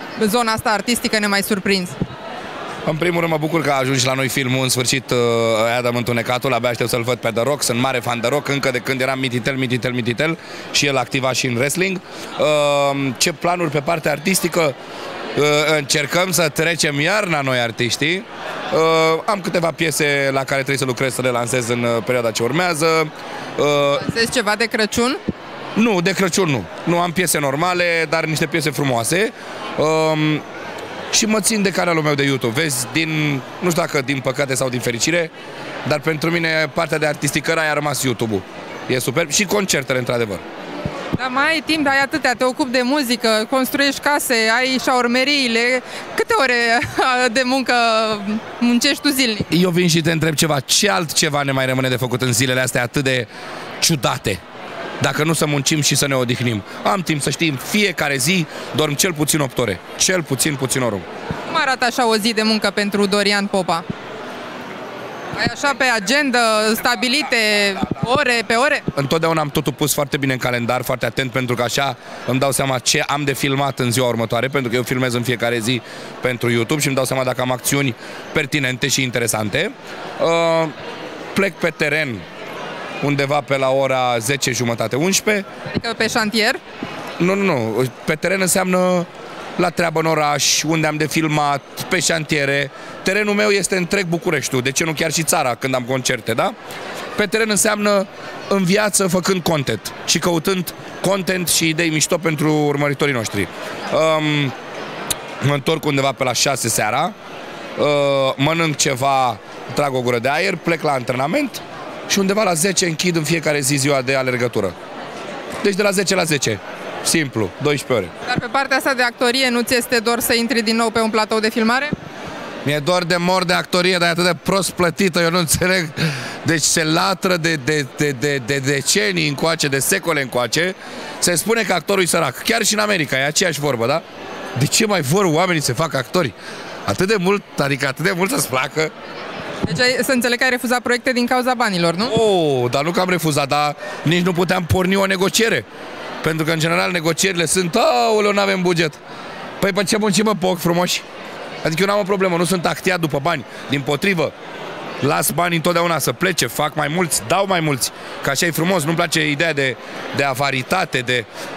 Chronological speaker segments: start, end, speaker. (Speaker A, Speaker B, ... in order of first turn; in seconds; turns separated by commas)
Speaker A: 0.2-1.9, Speaker B: 2.9-14.7, Speaker B: 15.3-24.0, Speaker A: 23.9-25.2, Speaker B: 25.8-30.4, Speaker B: 31.1-35.3, Speaker B: 35.8-40.4, Speaker A: 41.2-49.5, Speaker B: 49.5-54.4, Speaker B: 55.0-61.0, Speaker A: 61.5-63.8, Speaker A: 65.3-68.9, Speaker B: 68.9-80.7, Speaker B: 81.3-82.2, Speaker B: 83.0-85.5, Speaker A: 85.7-86.6, Speaker B: 87.2-96.5, Speaker B: 97.2-104.5, Speaker B: 105.4-107.1, Speaker B: 107.8-114.7, Speaker B: 115.6-118.1, Speaker A: 118.2-121.9, Speaker B: 122.6-134.0, Speaker B: 134.5-136.3, Speaker B: 136.9-138.9, Speaker A: 139.6-142.1, Speaker B: 142.0-145.7, Speaker B: 146.2-149.0, Speaker B: 149.6-151.0, Speaker B: 151.6-154.3, Speaker B: 155.0-161.3